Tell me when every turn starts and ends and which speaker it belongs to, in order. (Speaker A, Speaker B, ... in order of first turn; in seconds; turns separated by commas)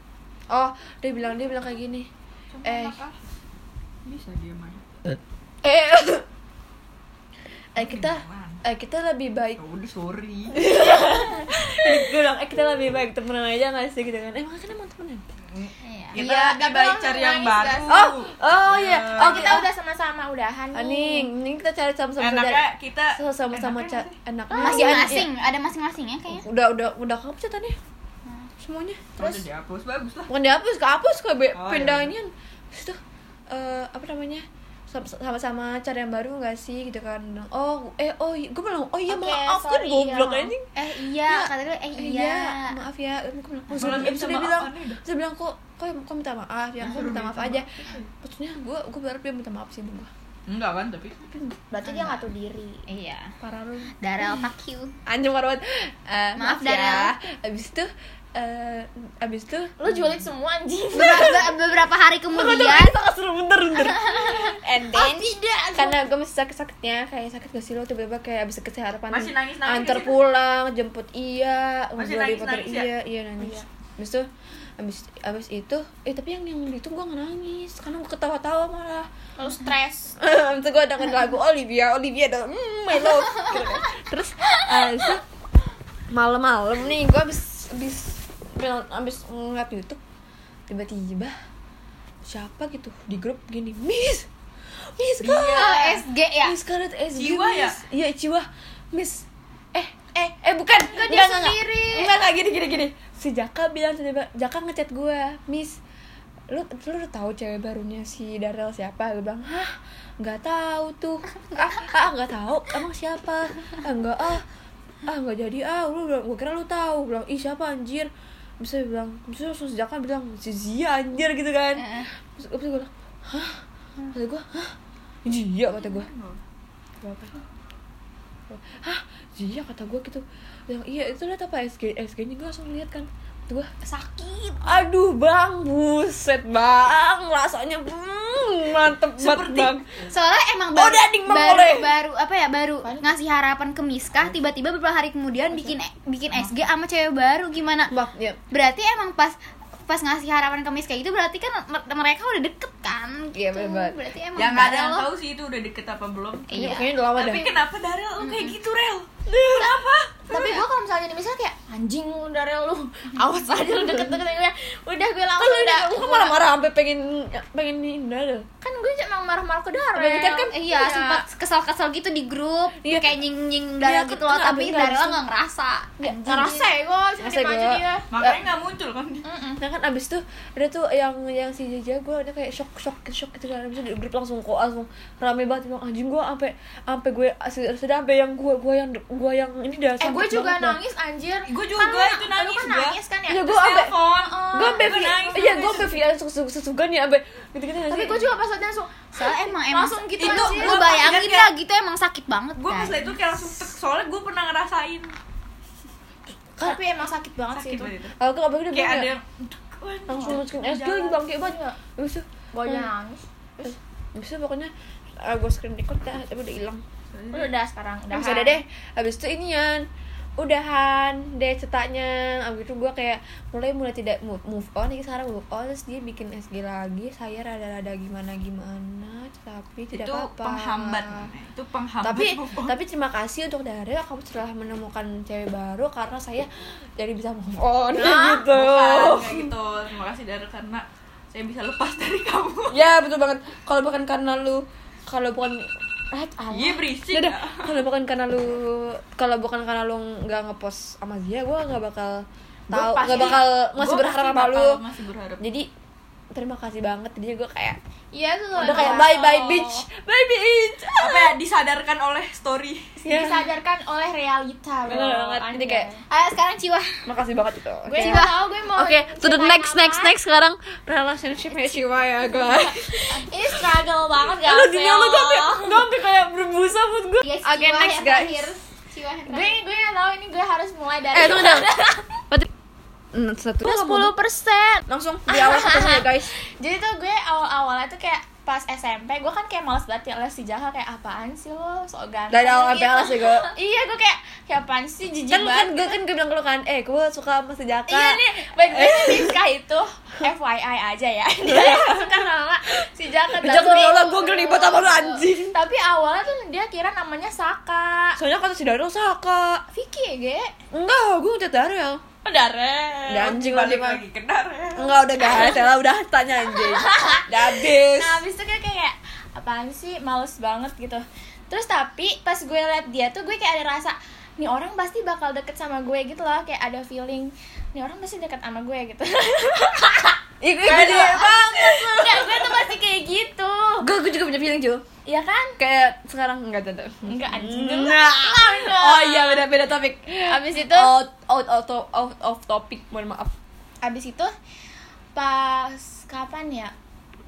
Speaker A: 0.5-2.1, Speaker B: 2.5-3.3, Speaker A: 2.6-3.0, Speaker B: 4.0-5.0, Speaker A: 5.6-6.2, Speaker A: 7.8-9.6, Speaker B: 7.8-8.6, Speaker B: 9.6-10.6, Speaker A: 10.5-15.2, Speaker B: 15.5-19.6, Speaker C: 15.8-16.2, Speaker D: 16.1-18.0, Speaker A: 17.9-19.7, Speaker D: 19.1-21.3, Speaker A: 20.7-25.3, Speaker B: 22.2-24.1, Speaker D: 24.5-25.2, Speaker C: 24.6-26.4, Speaker A: 26.3-27.8, Speaker A: 28.6-29.0, Speaker D: 29.2-29.4, Speaker B: 29.2-30.3, Speaker A: 30.3-40.7, Speaker B: 31.5-32.1, Speaker D: 39.1-40.5, Speaker C: 40.7-42.8, Speaker A: 41.2-50.1, Speaker B: 43.7-45.0, Speaker B: 46.8-48.0, Speaker B: 50.5-51.3, Speaker A: 51.3-51.5, Speaker D: 51.7-52.8, Speaker C: 51.8-52.2, Speaker C: 52.9-53.3, Speaker A: 53.4-53.9, Speaker C: 54.0-54.9, Speaker A: 55.0-59.9, Speaker C: 56.4-57.1, Speaker D: 59.8-61.5, Speaker C: 60.9-63.0, Speaker A: 61.0-61.5, Speaker A: 62.3-74.3, Speaker D: 64.9-66.0, Speaker B: 69.1-70.2, Speaker B: 72.0-72.9, Speaker D: 73.4-73.7, Speaker A: 74.8-79.1, Speaker D: 79.4-80.1, Speaker A: 80.2-85.2, Speaker A: 86.1-90.0, Speaker A: 90.7-91.3, Speaker A: 92.2-94.3, Speaker A: 95.0-105.8, Speaker B: 95.2-95.9, Speaker C: 95.5-96.5, Speaker B: 97.1-97.8, Speaker D: 100.1-102.1, Speaker A: 106.5-114.4, Speaker A: 115.0-123.6, Speaker A: 124.1-124.7, Speaker A: 125.2-126.1, Speaker B: 125.8-126.4, Speaker A: 127.0-127.3, Speaker A: 128.5-133.7, Speaker D: 133.9-134.6, Speaker C: 134.1-134.4, Speaker A: 134.6-139.8, Speaker B: 139.2-139.7, Speaker C: 140.0-147.9, Speaker A: 140.7-141.9, Speaker B: 146.3-146.7, Speaker A: 147.9-148.4, Speaker C: 148.5-155.1, Speaker A: 153.3-154.0, Speaker B: 154.3-160.6, Speaker C: 156.5-156.9, Speaker A: 156.5-157.6, Speaker C: 158.2-158.5, Speaker D: 160.3-166.4, Speaker A: 163.7-164.1, Speaker A: 165.4-168.4, Speaker D: 168.6-171.2, Speaker A: 169.9-170.5, Speaker C: 170.5-176.7, Speaker A: 172.8-173.2, Speaker A: 173.8-175.2, Speaker A: 176.0-176.6, Speaker D: 176.2-178.1, Speaker A: 177.2-178.4, Speaker B: 178.1-179.2, Speaker D: 179.2-179.6, Speaker A: 179.6-190.8, Speaker D: 190.0-193.5, Speaker B: 191.5-195.9, Speaker A: 193.3-194.0, Speaker D: 194.1-195.5, Speaker A: 194.5-198.3, Speaker D: 197.9-199.0, Speaker C: 199.1-203.0, Speaker D: 199.7-200.9, Speaker B: 200.2-201.5, Speaker B: 202.6-205.2, Speaker D: 206.6-207.9, Speaker B: 207.5-208.2, Speaker A: 208.2-209.1, Speaker B: 208.7-210.7, Speaker A: 210.1-212.9, Speaker D: 210.6-211.8, Speaker D: 212.5-213.7, Speaker A: 213.6-216.8, Speaker B: 217.1-217.5, Speaker D: 217.3-218.6, Speaker A: 218.1-219.8, Speaker A: 220.4-231.2, Speaker B: 229.9-232.8, Speaker A: 232.0-239.5, Speaker D: 238.0-238.4, Speaker B: 238.3-242.8, Speaker A: 242.7-254.8, Speaker B: 246.5-247.8, Speaker B: 252.7-255.4, Speaker D: 253.0-253.4, Speaker A: 255.4-255.7, Speaker A: 256.3-257.8, Speaker D: 258.1-259.8, Speaker A: 258.6-261.4, Speaker B: 258.6-259.0, Speaker B: 260.9-262.9, Speaker D: 263.0-266.0, Speaker A: 263.1-263.4, Speaker A: 264.8-265.9, Speaker C: 266.1-266.9, Speaker A: 267.1-273.2, Speaker D: 267.9-270.1, Speaker C: 268.0-268.3, Speaker D: 272.4-275.9, Speaker A: 274.4-278.5, Speaker C: 277.2-279.6, Speaker D: 279.3-282.2, Speaker A: 281.1-281.7, Speaker A: 283.1-284.1, Speaker D: 283.6-295.9, Speaker A: 284.9-286.3, Speaker A: 292.3-293.5, Speaker A: 295.3-299.4, Speaker D: 297.9-308.2, Speaker A: 301.4-302.1, Speaker A: 303.3-305.6, Speaker A: 308.2-309.6, Speaker D: 309.7-310.5, Speaker A: 310.7-312.0, Speaker D: 312.2-313.3, Speaker A: 313.1-314.0, Speaker B: 313.1-315.0, Speaker A: 314.7-318.2, Speaker D: 314.9-315.7, Speaker D: 316.5-333.9, Speaker A: 330.4-332.7, Speaker A: 333.8-334.8, Speaker D: 335.0-335.6, Speaker A: 335.6-343.3, Speaker D: 337.1-339.4, Speaker D: 340.3-340.9, Speaker D: 343.8-344.3, Speaker D: 345.1-346.7